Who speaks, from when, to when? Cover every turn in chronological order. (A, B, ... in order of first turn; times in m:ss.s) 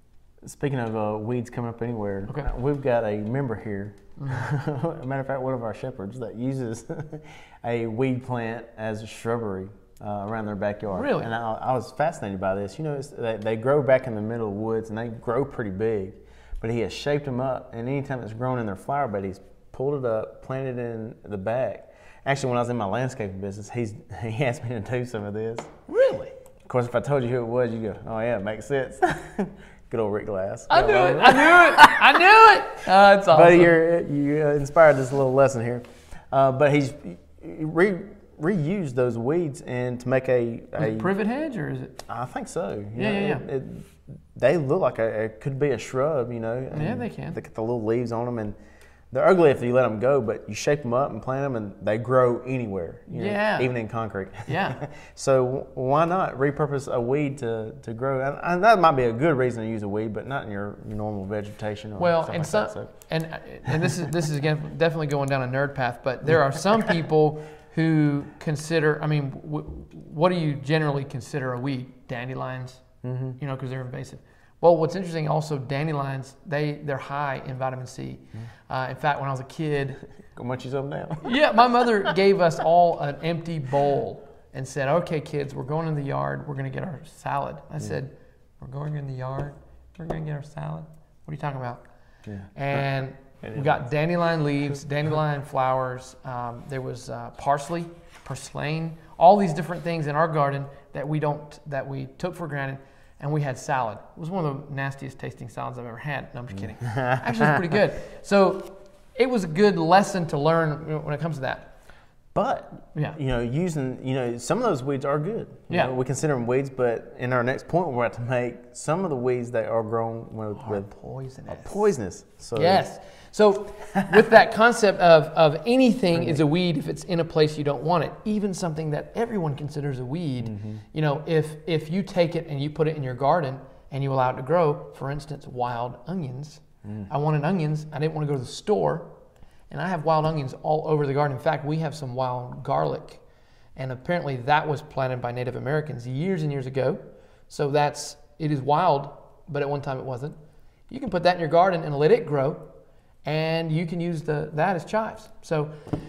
0:00.4-0:25.8 A
0:04.2-0:04.5 B
0:10.9-0:11.3 B
0:25.9-0:26.4 B
0:26.6-0:32.2 A
0:30.7-0:33.7 B
0:33.3-0:41.1 A
0:40.8-0:42.0 B
0:42.1-0:48.6 A
0:43.0-0:43.4 B
0:46.7-0:47.4 B
0:49.1-1:02.9 A
0:53.1-0:53.7 B
0:54.5-0:54.8 B
1:02.0-1:12.8 B
1:13.0-1:13.4 A
1:13.4-1:20.0 B
1:20.4-1:21.4 A
1:21.2-1:31.8 B
1:32.2-1:32.8 A
1:32.5-1:51.8 B
1:33.4-1:33.8 A
1:46.8-1:47.8 A
1:52.3-2:00.9 A
2:00.5-2:01.9 B
2:01.5-2:02.8 A
2:02.6-2:19.2 B
2:06.2-2:06.4 A
2:10.4-2:10.8 A
2:19.7-2:23.2 B
2:23.8-2:30.4 B
2:30.9-2:32.7 B
2:33.2-2:35.8 B